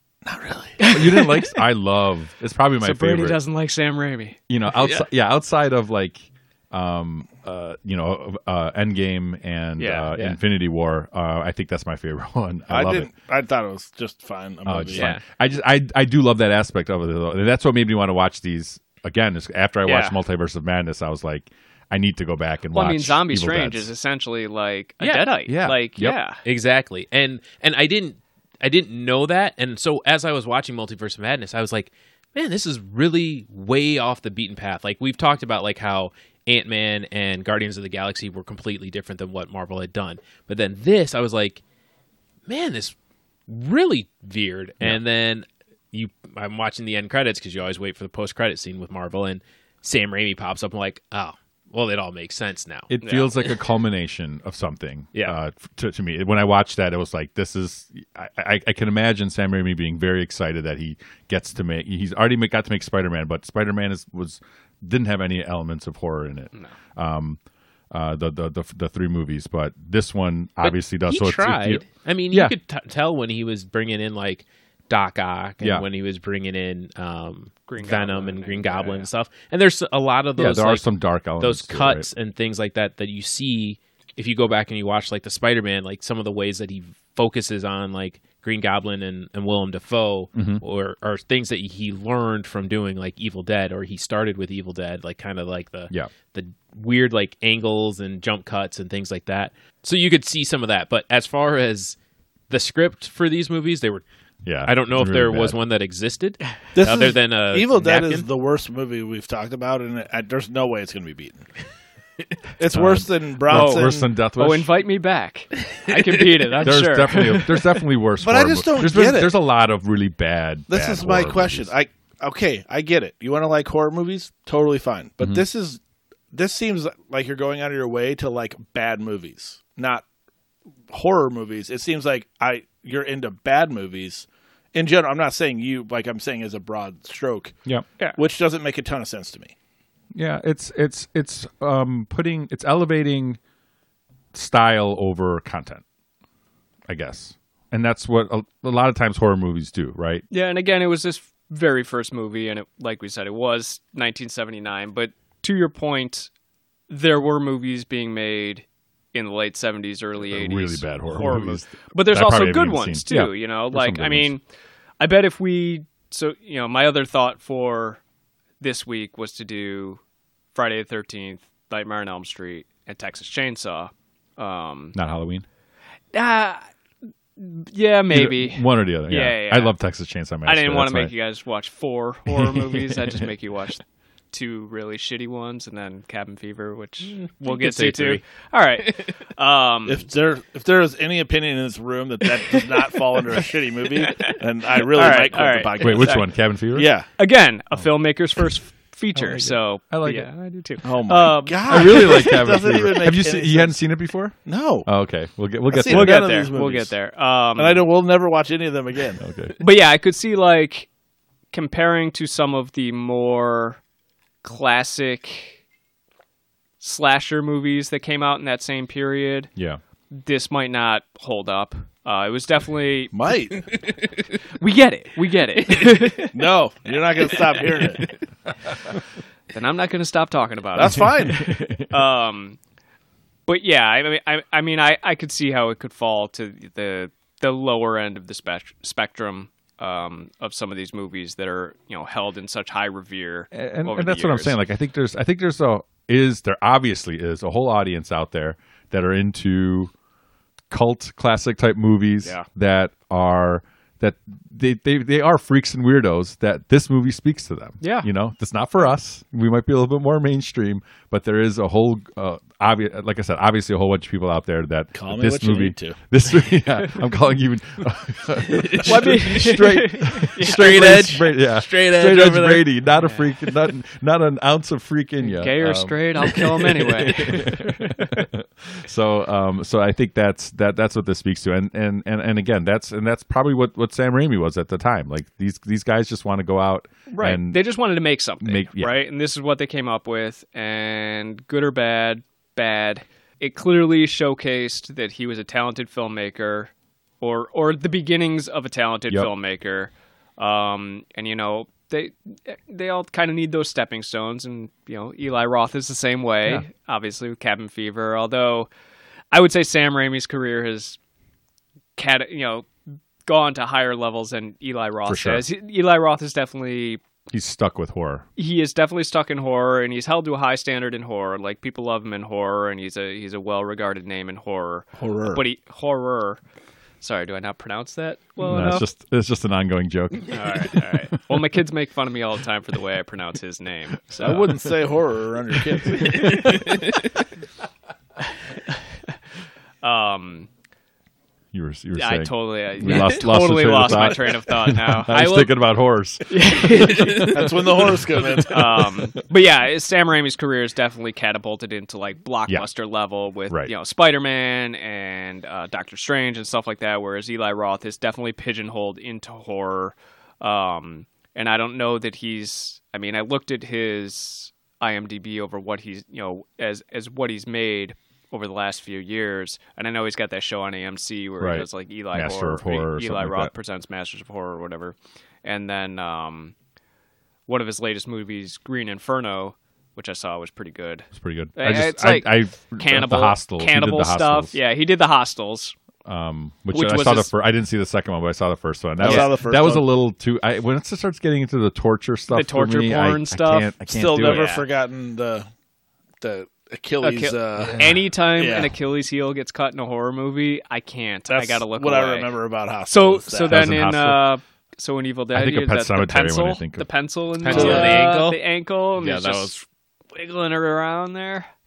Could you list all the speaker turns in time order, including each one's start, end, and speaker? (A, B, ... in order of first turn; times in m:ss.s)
0:00.2-0:00.8 A
0:00.8-0:01.6 B
0:00.9-0:03.4 C
0:02.8-0:04.4 B
0:04.5-0:13.1 C
0:04.7-0:05.1 D
0:09.8-0:10.1 B
0:12.7-0:15.2 A
0:14.7-0:23.9 C
0:14.9-0:15.2 D
0:19.8-0:20.2 B
0:22.7-0:26.4 B
0:25.0-0:25.3 D
0:25.5-0:26.2 C
0:26.4-0:41.6 D
0:42.5-0:43.0 D
0:43.5-0:52.9 D
0:52.9-1:07.4 C
0:53.0-0:53.3 B
1:07.9-1:12.6 C
1:10.6-1:42.0 D
1:17.7-1:19.1 B
1:20.4-1:22.1 C
1:30.4-1:30.6 C
1:42.5-1:44.0 D
1:44.4-1:45.6 C
1:44.6-1:48.3 D
1:46.8-1:51.5 A
1:52.6-1:54.1 A
1:52.7-1:54.7 C
1:53.5-1:57.8 B
1:56.6-2:01.7 C
1:58.2-1:59.3 A
2:00.7-2:05.8 A
2:06.3-2:10.0 A
2:10.9-2:17.6 A
2:18.2-2:19.5 A
2:20.2-2:23.4 C
2:24.3-2:25.8 C
2:26.9-2:30.2 C
2:30.3-2:36.3 B
2:36.9-2:44.4 B
2:40.2-2:44.3 C
2:45.0-2:48.0 B
2:48.6-2:50.0 B
2:50.5-2:55.0 B
2:55.0-2:55.4 C
2:56.1-2:56.7 B
2:57.4-2:59.7 B
2:58.1-3:01.1 C
3:00.4-3:10.1 B
3:02.3-3:03.2 C
3:07.1-3:08.2 D
3:08.8-3:09.1 D
3:09.9-3:17.1 A
3:13.9-3:16.2 B
3:15.8-3:16.9 C
3:17.2-3:22.5 B
3:19.2-3:20.3 C
3:20.8-3:23.8 A
3:21.7-3:26.3 C
3:24.4-3:24.9 A
3:25.7-3:26.9 A
3:25.9-3:27.8 B
3:27.6-3:29.2 A
3:29.2-3:29.6 C
3:29.6-3:30.9 B
3:31.5-3:33.8 B
3:34.4-3:35.6 B
3:36.8-3:39.5 B
3:40.1-3:43.2 B
3:43.1-3:43.7 A
3:44.6-3:46.5 B
3:46.3-3:48.2 A
3:47.2-3:47.6 B
3:49.5-3:52.6 B
3:50.8-3:51.5 A
3:51.3-3:51.8 C
3:53.5-4:04.6 B
4:03.5-4:09.9 C
4:10.7-4:47.6 C
4:17.8-4:18.1 B
4:24.9-4:26.0 A
4:28.6-4:28.9 D
4:28.8-4:30.9 B
4:30.3-4:32.7 D
4:35.2-4:38.3 B
4:47.1-5:08.7 B
4:48.4-4:48.9 C
5:09.3-5:11.0 B
5:12.0-5:12.7 B
5:13.3-5:17.0 B
5:15.1-5:15.4 C
5:17.3-5:18.3 C
5:18.4-5:26.4 B
5:25.0-5:25.4 A
5:27.0-5:28.9 B
5:28.4-5:30.9 C
5:30.3-5:34.6 B
5:34.2-5:36.6 A
5:34.2-5:34.5 C
5:35.9-5:36.7 B
5:36.2-5:37.0 D
5:39.8-5:40.5 B
5:41.5-5:46.9 C
5:42.0-5:45.1 B
5:42.9-5:43.1 D
5:45.1-5:45.6 D
5:46.3-6:16.5 B
5:46.6-5:48.0 D
5:47.3-5:48.8 A
6:11.4-6:13.5 C
6:17.5-6:25.8 B
6:21.1-6:24.6 C
6:26.0-6:34.5 C
6:26.7-6:27.3 B
6:29.0-6:29.9 A
6:29.0-6:29.3 B
6:32.3-6:34.6 B
6:33.9-6:35.5 A
6:36.2-6:38.7 A
6:37.0-6:42.3 B
6:41.3-6:43.7 A
6:42.9-6:51.5 B
6:43.4-6:44.3 C
6:45.3-6:46.9 C
6:47.4-6:48.4 D
6:47.5-6:48.1 A
6:47.5-6:48.0 C
6:49.0-6:49.6 D